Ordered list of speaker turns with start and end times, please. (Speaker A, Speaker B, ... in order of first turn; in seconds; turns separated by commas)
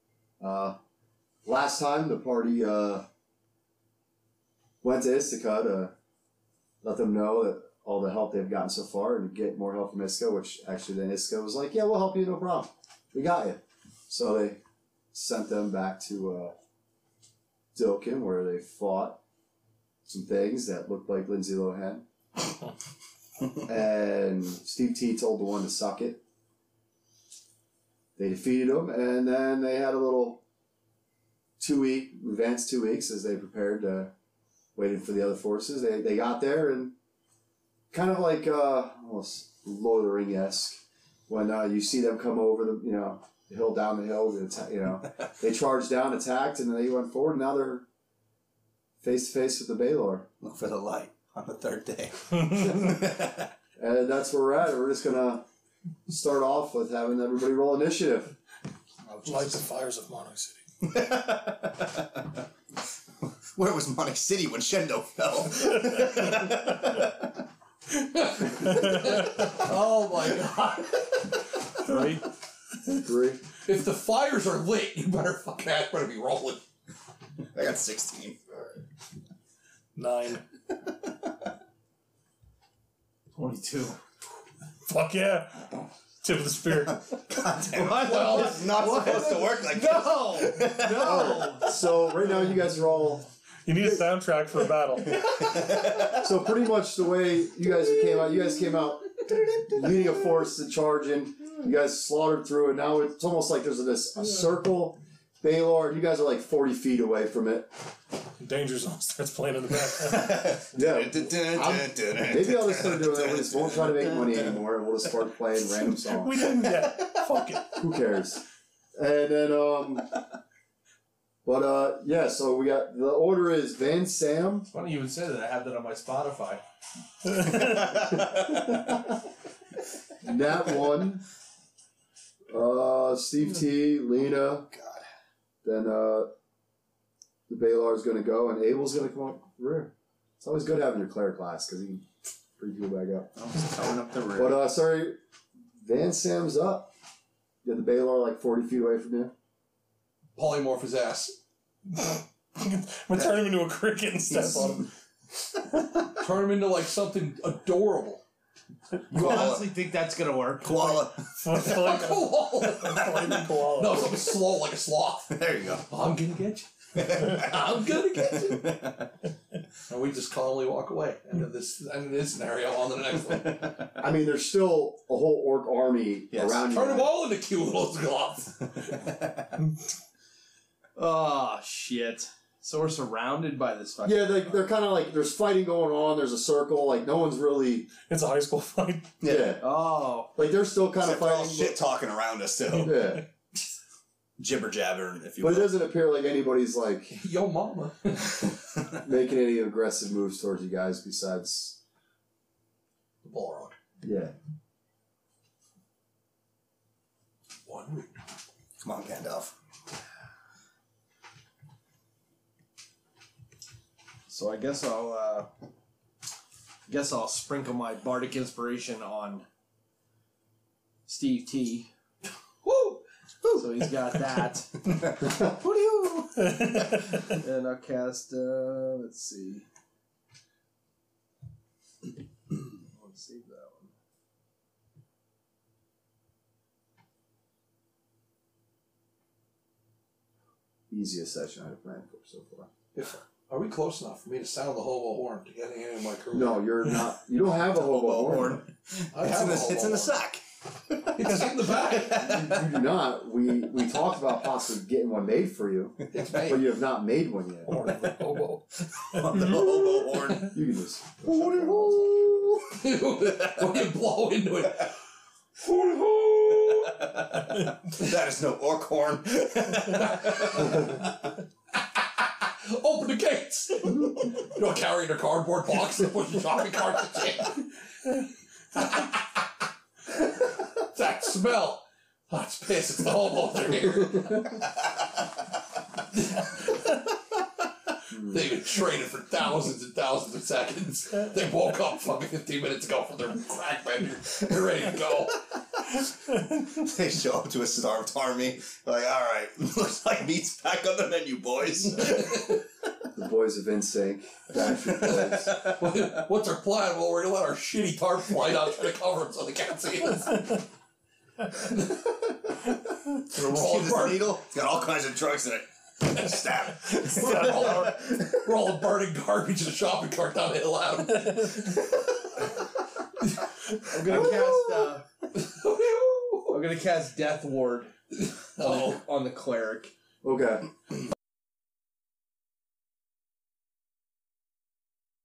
Speaker A: 0.4-0.8, Speaker A: 1.4-3.1, Speaker A: 4.8-5.9, Speaker A: 6.8-14.6, Speaker A: 15.1-16.6, Speaker A: 17.7-19.2, Speaker A: 20.1-22.0, Speaker A: 23.6-26.2, Speaker A: 28.2-30.4, Speaker A: 31.6-34.1, Speaker A: 34.8-37.0, Speaker A: 37.9-47.9, Speaker A: 49.0-50.3, Speaker B: 50.4-53.5, Speaker A: 53.8-55.5, Speaker A: 56.1-58.3, Speaker C: 59.1-60.6, Speaker B: 60.8-62.2, Speaker B: 63.2-67.3, Speaker D: 68.3-71.1, Speaker B: 68.4-68.9, Speaker C: 68.7-69.1, Speaker C: 71.8-72.2, Speaker A: 72.9-73.4, Speaker D: 73.6-76.6, Speaker B: 77.5-78.4, Speaker C: 80.0-80.4, Speaker E: 83.3-84.0, Speaker C: 84.9-87.1, Speaker B: 87.3-91.5, Speaker E: 87.7-91.7, Speaker D: 87.9-88.6, Speaker A: 90.9-93.3, Speaker C: 93.7-95.8, Speaker B: 95.2-96.3, Speaker A: 96.0-107.7, Speaker C: 108.4-110.8, Speaker B: 110.0-114.7, Speaker A: 110.7-116.5, Speaker C: 116.1-117.8, Speaker B: 116.6-117.5, Speaker A: 117.7-118.4, Speaker A: 119.0-120.1, Speaker A: 121.5-124.7, Speaker E: 124.7-126.6, Speaker B: 127.5-128.8, Speaker A: 128.1-129.0, Speaker A: 130.2-131.2, Speaker A: 132.5-134.7, Speaker B: 134.7-135.0, Speaker A: 135.6-136.3, Speaker A: 137.5-143.3, Speaker E: 143.4-144.1, Speaker B: 143.5-144.5, Speaker A: 144.3-145.2, Speaker A: 145.8-146.9, Speaker A: 147.6-149.3, Speaker D: 150.4-151.4, Speaker C: 151.9-154.9, Speaker D: 156.2-158.2, Speaker B: 159.1-159.8, Speaker E: 159.1-161.1, Speaker B: 160.6-161.3, Speaker C: 161.3-164.3, Speaker D: 161.6-168.7, Speaker B: 165.3-165.8, Speaker B: 166.9-169.1, Speaker D: 169.9-173.8, Speaker A: 174.0-177.2, Speaker B: 176.3-176.6, Speaker D: 176.7-179.1, Speaker E: 181.0-184.6, Speaker A: 184.0-187.9, Speaker C: 188.0-189.2, Speaker B: 189.2-189.6, Speaker A: 189.2-189.6, Speaker E: 189.6-190.3, Speaker A: 190.3-191.8, Speaker B: 191.0-193.2, Speaker A: 192.7-193.3, Speaker B: 194.4-195.7, Speaker A: 195.4-197.2, Speaker D: 197.1-198.4, Speaker A: 199.0-201.8, Speaker D: 203.2-203.8, Speaker A: 204.0-204.3, Speaker D: 207.7-208.2, Speaker B: 208.8-209.6, Speaker E: 214.3-215.5, Speaker E: 216.9-219.5, Speaker E: 221.1-221.9, Speaker D: 222.7-223.0, Speaker E: 223.5-229.7, Speaker B: 224.9-225.4, Speaker C: 226.4-227.3, Speaker E: 232.8-233.9, Speaker A: 240.9-242.7, Speaker D: 242.9-246.9, Speaker A: 246.3-248.6, Speaker B: 247.6-252.6, Speaker D: 249.1-250.2, Speaker D: 251.2-252.3, Speaker A: 252.1-257.8, Speaker D: 256.1-256.7, Speaker D: 257.7-258.6, Speaker B: 258.9-260.6, Speaker A: 260.4-262.2, Speaker D: 261.3-261.7, Speaker D: 262.5-264.9, Speaker D: 265.6-267.0, Speaker B: 266.8-271.1, Speaker D: 270.0-270.9, Speaker D: 272.2-277.7, Speaker D: 278.7-279.4, Speaker D: 280.1-284.6, Speaker D: 286.2-287.0, Speaker A: 288.1-288.5, Speaker D: 288.2-295.4, Speaker B: 295.9-302.6, Speaker A: 303.1-305.6, Speaker D: 305.1-310.6, Speaker B: 305.1-305.7, Speaker D: 311.5-312.6, Speaker D: 313.2-314.4, Speaker B: 313.3-317.9, Speaker D: 316.9-322.0, Speaker E: 323.9-325.0, Speaker A: 324.1-324.4, Speaker D: 325.3-326.6, Speaker E: 326.5-327.9, Speaker D: 328.6-328.9, Speaker E: 328.6-329.9, Speaker A: 330.2-330.7